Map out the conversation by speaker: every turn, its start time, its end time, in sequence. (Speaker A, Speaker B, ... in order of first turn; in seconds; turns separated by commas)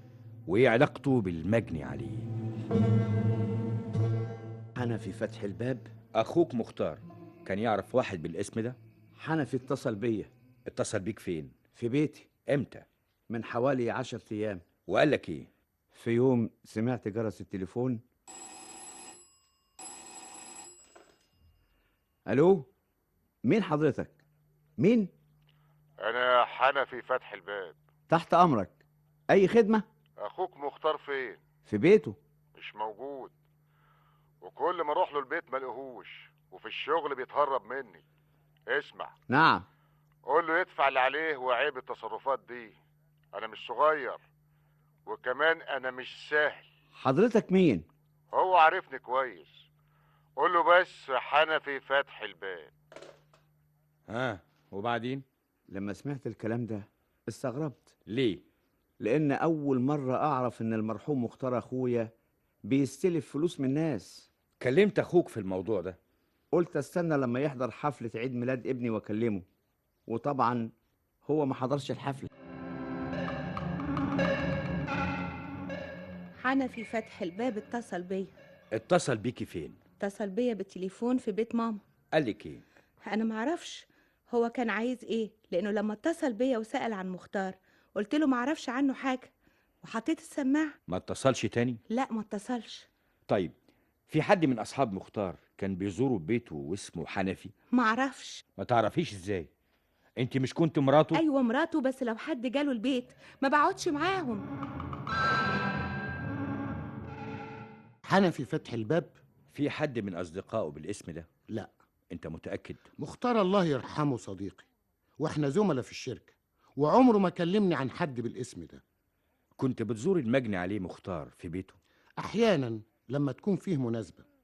Speaker A: 0.5-2.3, Speaker B: 4.8-5.9, Speaker A: 6.1-8.8, Speaker B: 9.2-10.3, Speaker A: 10.7-11.5, Speaker B: 11.7-12.3, Speaker A: 12.5-12.8, Speaker B: 13.3-14.6, Speaker A: 14.9-15.5, Speaker B: 15.9-18.0, Speaker B: 22.3-22.7, Speaker B: 23.4-24.2, Speaker B: 24.8-25.1, Speaker C: 26.0-27.8, Speaker B: 28.1-29.8, Speaker C: 30.2-31.4, Speaker B: 31.6-32.2, Speaker C: 32.5-33.3, Speaker C: 34.4-38.0, Speaker C: 38.7-39.1, Speaker B: 39.3-39.6, Speaker C: 40.2-42.8, Speaker C: 43.3-44.2, Speaker C: 45.0-46.6, Speaker B: 46.9-47.9, Speaker C: 48.3-49.6, Speaker C: 50.4-52.7, Speaker A: 54.1-55.2, Speaker B: 55.7-57.9, Speaker A: 58.1-58.4, Speaker B: 59.0-62.1, Speaker B: 62.6-64.3, Speaker A: 64.6-66.0, Speaker B: 66.5-69.4, Speaker B: 70.1-70.7, Speaker B: 71.2-72.3, Speaker D: 76.4-78.3, Speaker A: 78.7-79.8, Speaker D: 80.0-81.8, Speaker A: 82.1-82.6, Speaker D: 83.1-89.3, Speaker D: 89.8-90.7, Speaker A: 90.9-91.8, Speaker D: 91.9-92.8, Speaker A: 93.3-93.5, Speaker A: 94.1-97.5, Speaker D: 97.7-98.4, Speaker A: 98.6-99.5, Speaker A: 100.2-101.2, Speaker D: 101.1-104.4, Speaker E: 108.0-109.1, Speaker A: 109.5-111.3, Speaker A: 112.1-112.8, Speaker E: 113.0-114.7, Speaker E: 115.2-118.8, Speaker A: 119.6-121.8, Speaker E: 122.2-124.2